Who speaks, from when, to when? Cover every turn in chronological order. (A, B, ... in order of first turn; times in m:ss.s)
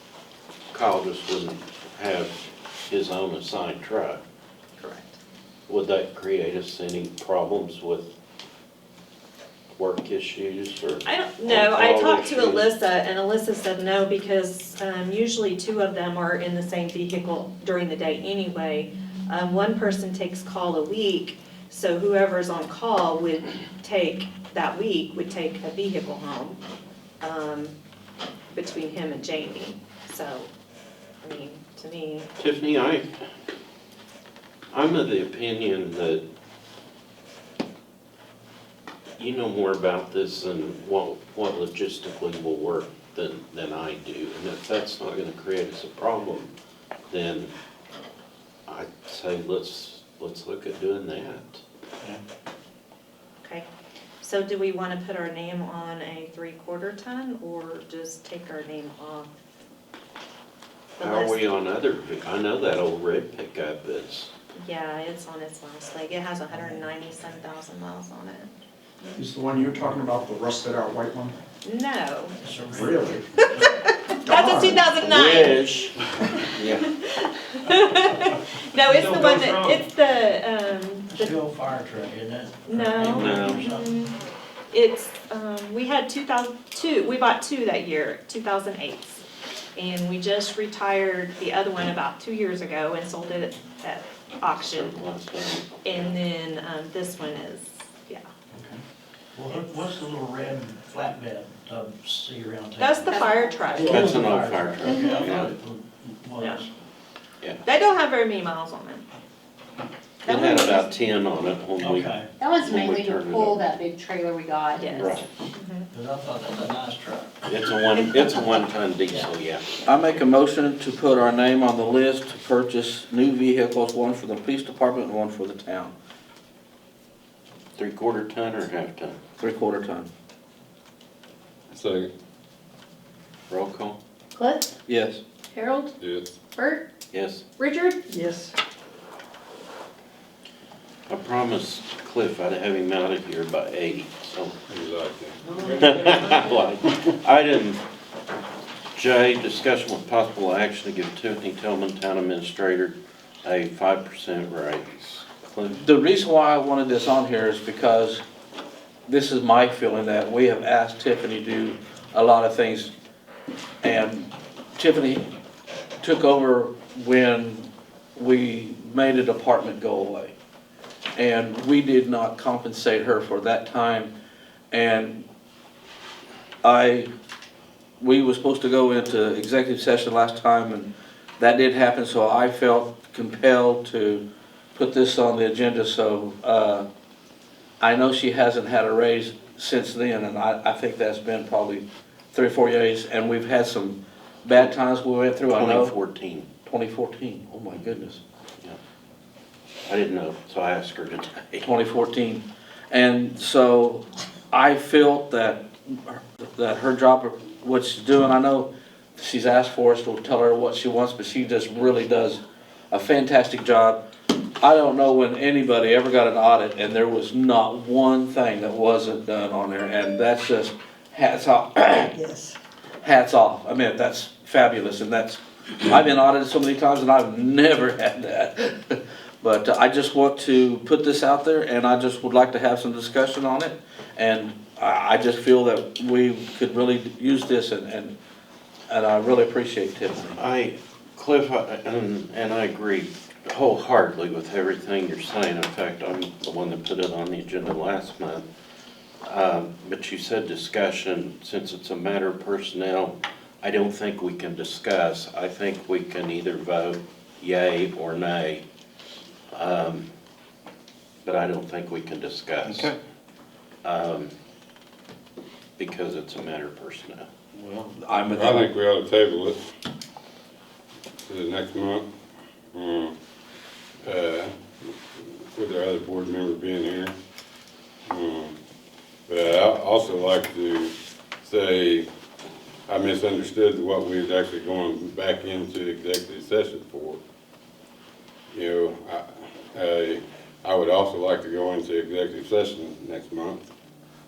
0:00.7-0:02.3 A
0:02.9-0:04.2 A
0:04.8-0:05.2 B
0:05.7-0:08.1 A
0:09.7-0:12.7 A
0:11.0-0:26.6 B
0:27.2-0:27.7 B
0:28.5-0:30.5 B
0:31.2-0:32.3 B
0:32.4-0:33.1 A
0:34.7-0:36.2 A
0:39.2-0:46.5 A
0:47.1-0:47.5 A
0:48.7-0:51.6 A
0:54.2-0:59.3 B
1:01.0-1:01.4 B
1:01.0-1:04.3 A
1:04.6-1:08.5 B
1:09.2-1:11.3 C
1:11.6-1:12.4 B
1:12.4-1:13.9 D
1:12.7-1:13.2 C
1:13.6-1:15.7 B
1:14.2-1:14.8 C
1:15.0-1:15.9 A
1:16.5-1:16.8 A
1:16.5-1:21.3 B
1:18.8-1:19.8 C
1:21.1-1:23.8 D
1:22.6-1:24.1 B
1:23.0-1:23.6 A
1:24.7-1:29.2 B
1:29.8-1:34.9 B
1:34.5-1:36.2 A
1:35.8-1:38.3 B
1:39.3-1:46.7 D
1:42.8-1:44.1 B
1:43.1-1:43.7 E
1:43.8-1:45.5 A
1:46.4-1:46.6 B
1:47.6-1:49.0 B
1:50.2-1:50.9 B
1:50.2-1:53.6 A
1:51.8-1:52.3 D
1:52.4-1:55.2 E
1:54.8-1:55.9 B
1:54.9-1:55.2 A
1:55.9-1:57.6 D
1:57.5-1:59.9 A
1:59.8-2:05.9 F
2:07.8-2:09.2 A
2:09.4-2:10.1 F
2:11.7-2:12.1 G
2:13.5-2:14.0 A
2:14.4-2:14.7 E
2:14.9-2:15.2 F
2:15.5-2:15.9 E
2:16.0-2:16.3 G
2:16.5-2:16.8 E
2:17.1-2:17.4 A
2:17.6-2:18.1 E
2:21.1-2:24.6 A
2:24.7-2:26.3 G
2:25.6-2:27.8 A
2:25.6-2:26.5 D
2:28.9-2:35.8 A
2:35.8-2:38.2 F
2:39.1-2:42.9 F
2:43.8-2:45.2 F
2:46.0-2:50.3 F
2:51.2-2:54.1 F
2:54.7-2:55.2 F
2:56.6-2:57.1 F
2:58.0-3:04.2 F
3:04.7-3:06.8 F
3:07.8-3:15.9 F
3:15.5-3:16.5 A
3:16.6-3:18.2 F
3:19.8-3:21.7 A
3:21.6-3:34.0 F
3:34.6-3:42.1 F
3:43.0-3:58.1 F
3:58.9-4:00.4 F
4:00.4-4:08.4 A
4:09.2-4:18.6 A
4:19.5-4:20.1 A
4:21.2-4:22.9 A
4:23.8-4:24.3 A
4:25.8-4:27.2 A
4:27.8-4:28.7 F
4:28.3-4:29.6 G
4:31.2-4:32.0 G
4:32.7-4:33.1 G
4:34.0-4:34.5 G
4:35.5-4:37.1 G
4:38.1-4:38.5 G
4:39.3-4:42.0 G
4:42.9-4:47.2 G
4:48.5-4:53.7 G